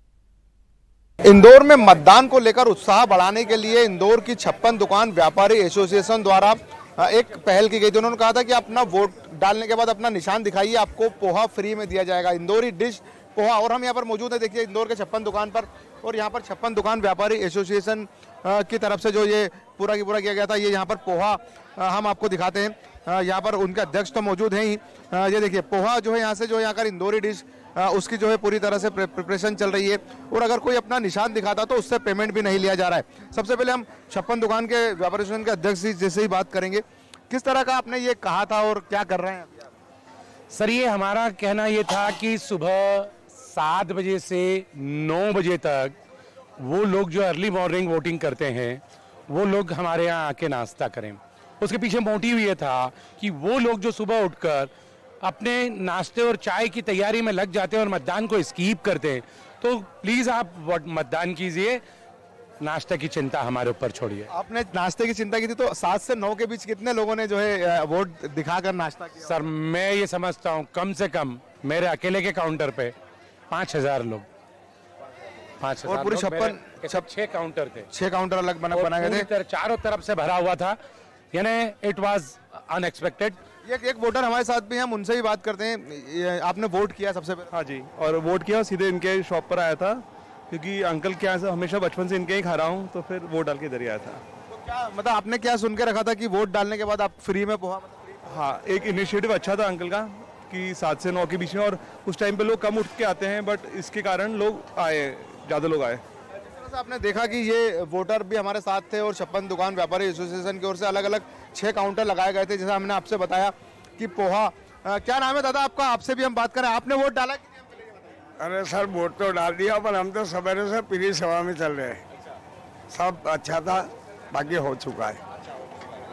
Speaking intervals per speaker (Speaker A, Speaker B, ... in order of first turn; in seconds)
Speaker A: 1.3-39.7, 64.3-69.4, 75.8-77.0, 77.9-79.3, 83.7-87.5, 94.5-98.1, 106.5-117.9
Speaker B: 40.5-46.0, 46.6-54.7, 55.2-61.8, 62.6-64.3, 69.2-72.9, 73.5-74.3, 75.6-77.9, 78.7-80.8, 81.3-83.4
Speaker C: 87.5-94.2, 98.3-106.0
Speaker D: 118.4-122.0, 122.9-125.2